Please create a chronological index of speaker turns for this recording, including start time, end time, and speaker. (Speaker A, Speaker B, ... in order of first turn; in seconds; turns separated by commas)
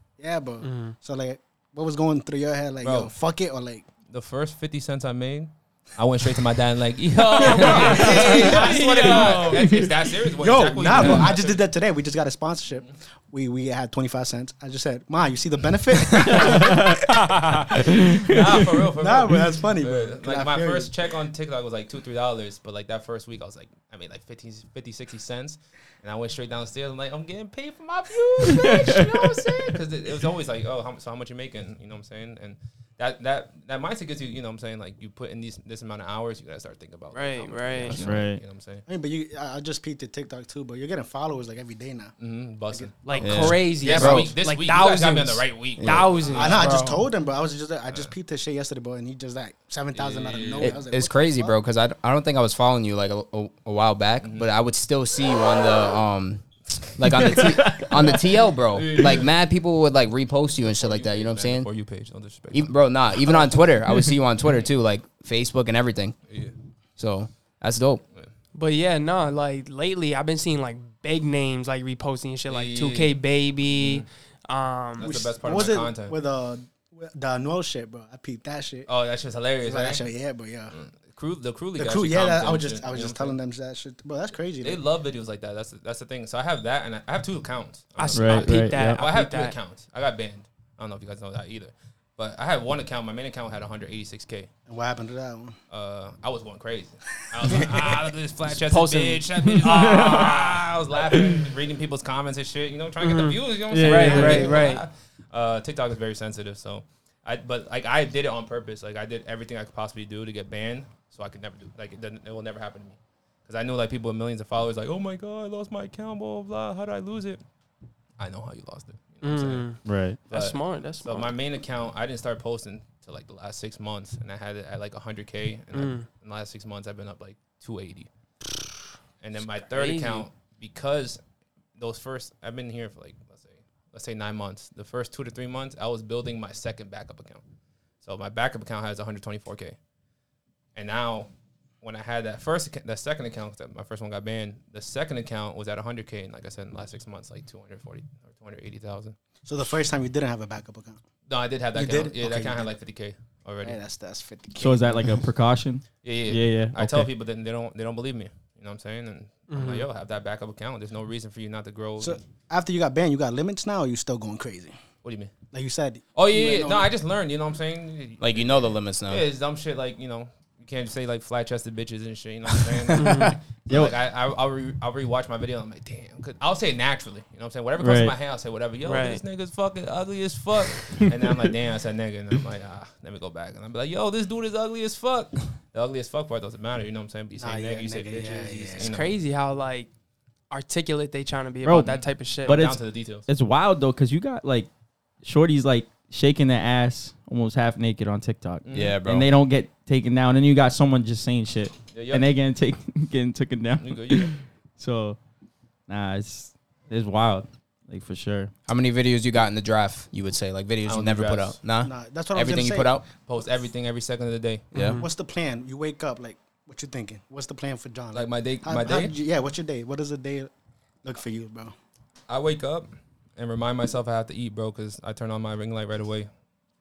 Speaker A: 0.2-3.9, Speaker B: 0.6-0.9, Speaker C: 2.8-3.1, Speaker C: 4.1-11.7, Speaker B: 7.3-9.6, Speaker A: 7.4-9.4, Speaker D: 9.0-9.9, Speaker A: 10.4-20.9, Speaker D: 16.3-18.6, Speaker C: 18.1-38.8, Speaker D: 28.4-29.7, Speaker B: 37.1-38.0, Speaker D: 37.9-38.4, Speaker A: 38.9-42.1, Speaker C: 42.2-46.9, Speaker A: 42.7-44.2, Speaker B: 43.0-47.0, Speaker E: 43.2-44.3, Speaker E: 45.8-46.0, Speaker A: 46.3-51.5, Speaker C: 49.9-50.8, Speaker E: 50.6-61.7, Speaker C: 54.2-54.5, Speaker C: 57.1-58.2, Speaker D: 57.6-58.1, Speaker C: 58.7-59.3, Speaker C: 60.6-63.5, Speaker E: 62.5-66.2, Speaker C: 66.3-66.5, Speaker E: 67.0-68.0, Speaker B: 68.5-75.1, Speaker C: 72.5-74.0, Speaker C: 75.0-76.2, Speaker A: 75.0-78.9, Speaker C: 78.9-80.0, Speaker A: 79.6-80.8, Speaker C: 80.7-83.4, Speaker A: 81.8-84.8, Speaker C: 84.6-94.5, Speaker B: 88.0-89.5, Speaker D: 88.1-89.0, Speaker A: 94.7-95.6, Speaker C: 95.7-117.4, Speaker A: 97.3-98.0, Speaker B: 98.7-100.5, Speaker D: 99.5-100.4, Speaker B: 103.0-104.8, Speaker D: 103.7-104.6, Speaker C: 118.2-119.7, Speaker B: 119.2-121.3, Speaker D: 119.8-120.2, Speaker C: 120.3-128.1, Speaker B: 125.7-126.0, Speaker C: 129.2-131.2, Speaker B: 129.7-130.3, Speaker C: 131.8-137.4, Speaker C: 138.0-139.8, Speaker C: 140.7-149.2, Speaker A: 149.4-151.0, Speaker C: 151.3-153.8, Speaker A: 151.7-152.7, Speaker A: 153.6-155.2, Speaker D: 154.6-157.1, Speaker C: 156.0-162.2, Speaker B: 159.5-159.9, Speaker A: 162.0-164.8, Speaker C: 165.0-165.3, Speaker A: 165.5-166.9, Speaker C: 166.1-189.1, Speaker E: 168.2-169.2, Speaker D: 172.9-174.0, Speaker B: 172.9-173.3, Speaker D: 177.8-178.2, Speaker B: 178.8-179.2, Speaker D: 181.0-181.5, Speaker A: 187.4-189.0, Speaker B: 188.8-189.9, Speaker B: 190.5-192.6, Speaker D: 191.6-194.7, Speaker C: 191.8-193.3, Speaker D: 195.2-205.2, Speaker C: 198.6-199.0, Speaker E: 198.7-199.3, Speaker C: 201.9-202.3, Speaker C: 203.8-204.3, Speaker D: 205.9-208.5, Speaker E: 208.7-213.1, Speaker C: 210.8-211.6, Speaker A: 211.8-213.0, Speaker C: 213.2-214.7, Speaker B: 214.7-215.1, Speaker E: 214.7-215.0, Speaker A: 215.0-220.5, Speaker C: 218.1-219.1, Speaker A: 221.0-221.7, Speaker C: 222.3-226.3